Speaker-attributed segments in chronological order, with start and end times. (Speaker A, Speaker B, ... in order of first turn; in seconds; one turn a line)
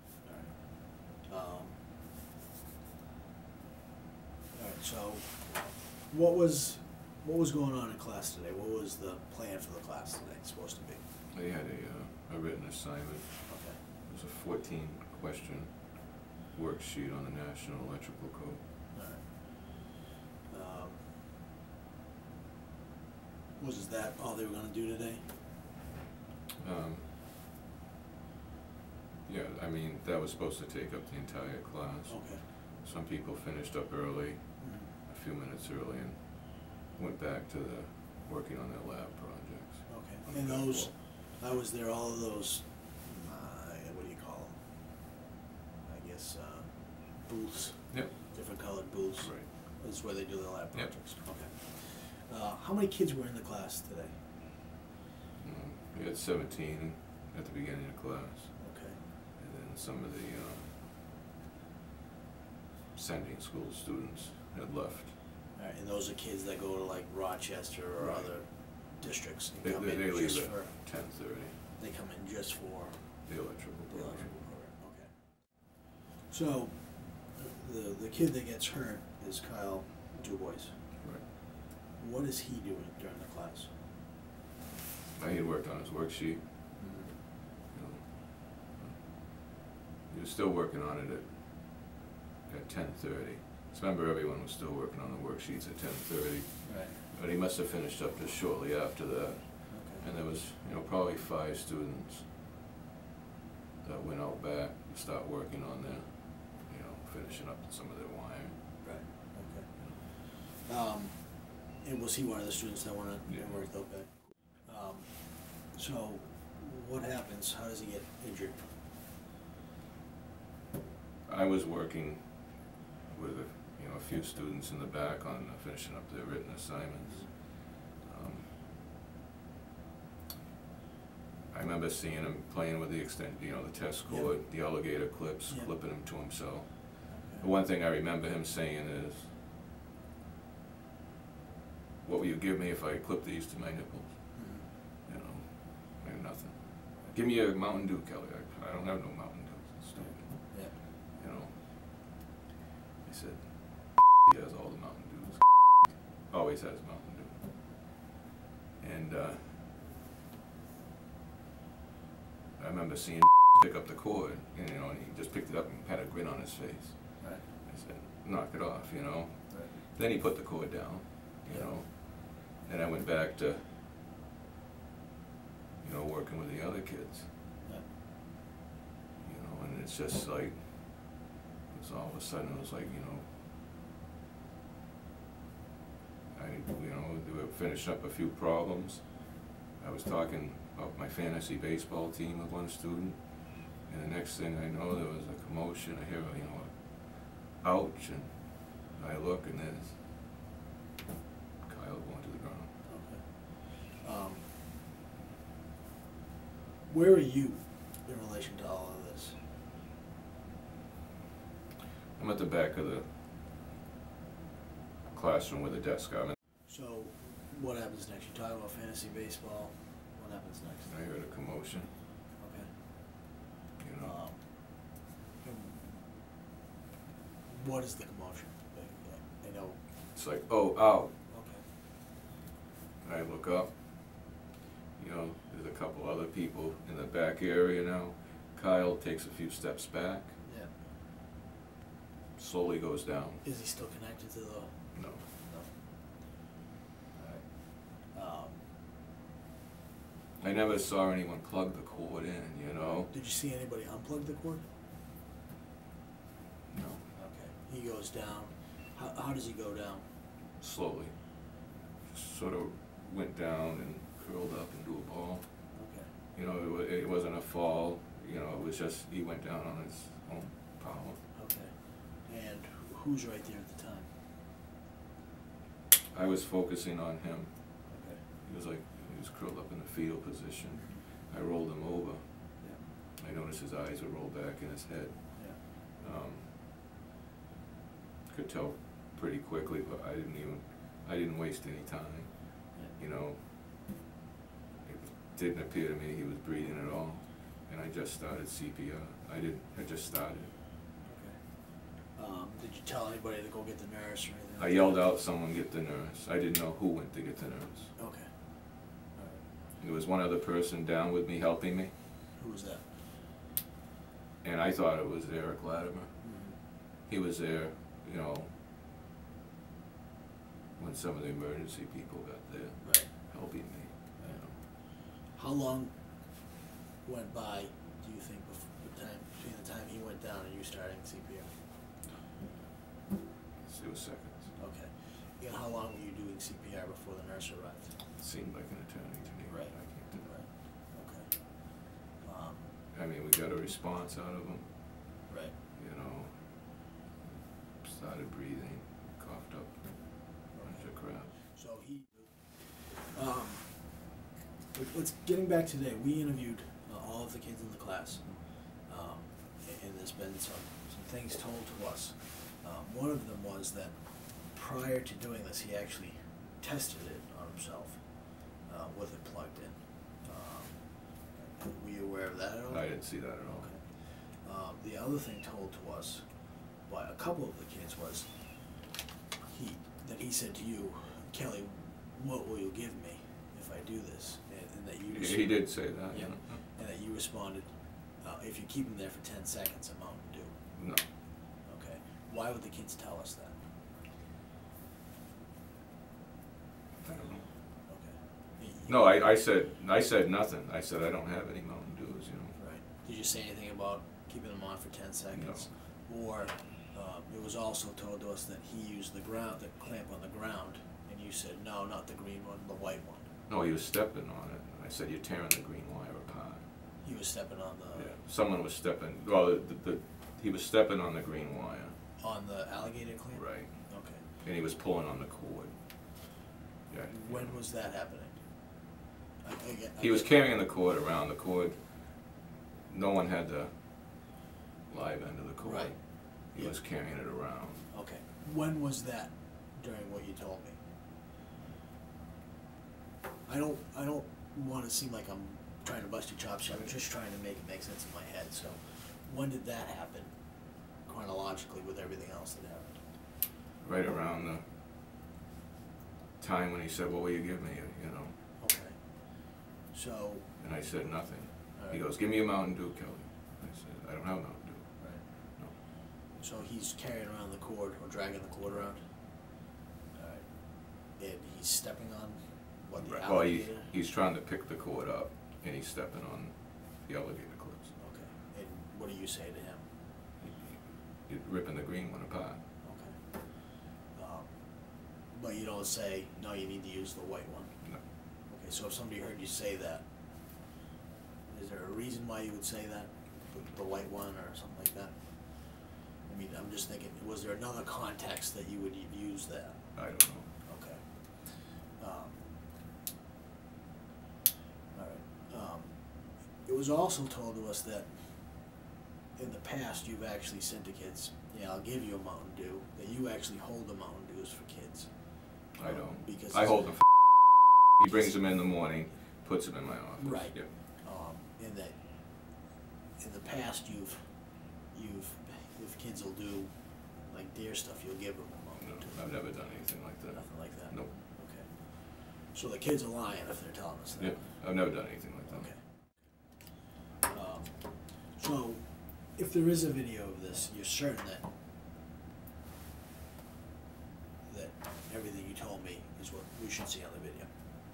Speaker A: 0.2-1.9
Speaker A: 4.5-11.0
Speaker B: 11.3-18.6
Speaker A: 13.5-13.8
Speaker A: 18.9-21.2
Speaker A: 23.6-25.4
Speaker B: 26.6-27.1
Speaker B: 29.2-40.9
Speaker A: 32.1-32.5
Speaker A: 34.6-35.0
Speaker A: 39.9-44.8
Speaker A: 45.8-54.2
Speaker B: 47.9-50.0
Speaker B: 50.7-51.1
Speaker B: 55.4-60.8
Speaker A: 58.6-59.0
Speaker B: 62.9-65.2
Speaker A: 65.5-83.8
Speaker B: 68.0-68.6
Speaker B: 69.6-71.6
Speaker B: 73.2-74.4
Speaker B: 81.0-81.3
Speaker B: 85.2-87.0
Speaker A: 86.8-87.2
Speaker B: 87.7-102.3
Speaker A: 96.7-97.0
Speaker A: 99.7-100.0
Speaker B: 103.8-110.0
Speaker A: 108.8-118.7
Speaker B: 113.3-114.3
Speaker B: 121.3-128.5
Speaker A: 127.0-127.3
Speaker B: 131.5-139.3
Speaker A: 134.1-134.4
Speaker A: 135.5-135.7
Speaker A: 137.1-137.5
Speaker B: 142.0-152.1
Speaker A: 144.3-144.7
Speaker A: 150.0-150.8
Speaker B: 153.0-158.1
Speaker B: 158.8-159.8
Speaker B: 162.6-173.8
Speaker A: 167.2-167.5
Speaker A: 169.5-169.8
Speaker A: 171.5-171.8
Speaker B: 175.8-177.3
Speaker A: 177.6-177.9
Speaker B: 179.2-183.3
Speaker B: 186.3-200.0
Speaker B: 201.7-202.8
Speaker A: 202.8-204.6
Speaker A: 206.9-209.4
Speaker B: 212.2-213.1
Speaker B: 215.1-216.4
Speaker A: 216.7-221.0
Speaker B: 220.9-221.9
Speaker A: 222.4-223.2
Speaker B: 223.8-224.2
Speaker A: 224.0-226.2
Speaker A: 227.4-229.8
Speaker B: 230.1-231.1
Speaker A: 231.3-231.7
Speaker B: 233.0-234.4
Speaker B: 235.0-240.4
Speaker A: 240.4-240.8
Speaker B: 242.4-243.4
Speaker A: 243.4-246.4
Speaker B: 244.9-245.3
Speaker A: 247.2-248.7
Speaker B: 250.4-253.1
Speaker A: 252.8-254.7
Speaker B: 256.7-257.1
Speaker A: 257.1-260.1
Speaker B: 260.6-271.4
Speaker A: 265.7-266.1
Speaker A: 271.3-274.2
Speaker B: 276.1-286.6
Speaker A: 277.9-278.3
Speaker A: 280.7-281.1
Speaker A: 282.6-282.9
Speaker A: 285.4-285.6
Speaker B: 288.3-293.9
Speaker B: 294.8-300.5
Speaker A: 301.0-305.1
Speaker B: 304.6-307.9
Speaker A: 308.0-309.5
Speaker B: 309.8-311.9
Speaker A: 312.3-313.0
Speaker B: 314.4-318.6
Speaker A: 316.2-316.6
Speaker B: 320.8-324.6
Speaker A: 322.8-331.7
Speaker B: 333.6-334.6
Speaker A: 334.6-338.0
Speaker B: 338.2-340.4
Speaker A: 339.5-342.7
Speaker B: 342.9-345.2
Speaker A: 345.3-345.6
Speaker B: 345.7-351.4
Speaker A: 350.5-354.2
Speaker A: 354.7-378.9
Speaker B: 372.7-373.8
Speaker A: 379.5-391.1
Speaker B: 385.1-386.6
Speaker B: 390.8-391.1
Speaker A: 391.6-393.7
Speaker B: 397.0-397.5
Speaker A: 397.8-399.0
Speaker B: 398.9-402.6
Speaker A: 402.6-413.3
Speaker B: 405.3-405.7
Speaker B: 413.5-416.7
Speaker A: 417.0-418.2
Speaker B: 417.9-422.0
Speaker A: 422.2-424.2
Speaker B: 423.3-426.3
Speaker B: 426.9-427.6
Speaker A: 427.1-428.9
Speaker A: 429.4-430.3
Speaker B: 430.0-437.9
Speaker A: 435.6-440.8
Speaker A: 443.5-453.0
Speaker B: 453.8-454.7
Speaker B: 456.4-458.4
Speaker A: 458.6-460.6
Speaker B: 460.6-465.8
Speaker A: 461.8-462.1
Speaker A: 465.0-473.9
Speaker B: 473.0-478.0
Speaker A: 478.0-479.9
Speaker B: 480.4-482.6
Speaker A: 482.8-490.6
Speaker A: 491.5-502.5
Speaker B: 499.9-500.5
Speaker A: 504.9-508.8
Speaker A: 509.4-517.4
Speaker B: 515.7-520.7
Speaker A: 520.2-522.6
Speaker A: 523.2-529.2
Speaker B: 528.8-531.2
Speaker A: 530.3-534.6
Speaker B: 534.2-535.7
Speaker A: 535.5-541.5
Speaker A: 544.5-547.6